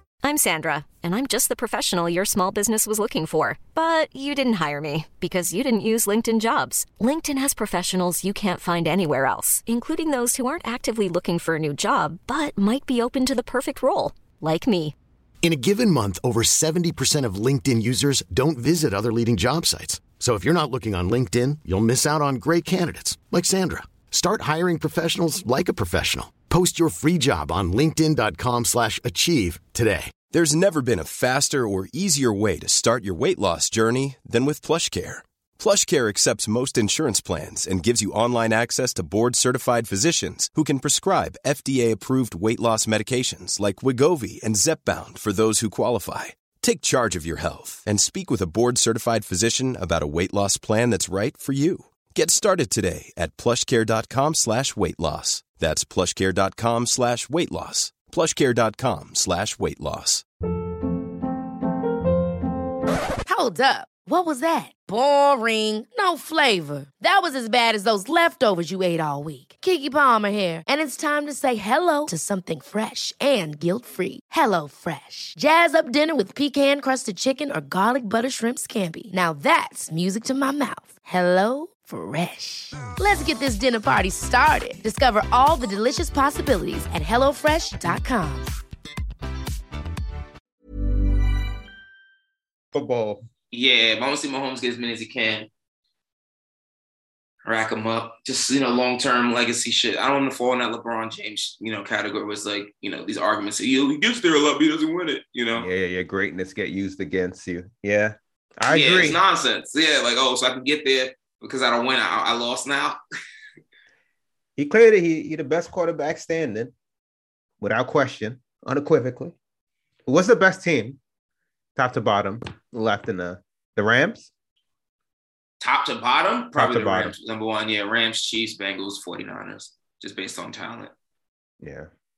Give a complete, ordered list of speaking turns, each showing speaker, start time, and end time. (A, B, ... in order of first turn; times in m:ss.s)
0:00.2-0:15.0 A
0:15.4-0:30.1 B
0:30.3-1:00.2 C
1:03.3-1:28.5 D
1:32.7-1:33.2 E
1:33.5-1:35.5 F
1:37.4-1:45.7 F
1:45.6-1:49.2 E
1:48.7-1:53.0 F
1:54.6-1:56.7 E
1:57.6-1:59.4 E
2:00.1-2:01.0 E
2:01.8-2:04.3 E
2:05.6-2:10.9 F
2:06.6-2:07.2 E
2:11.6-2:11.9 E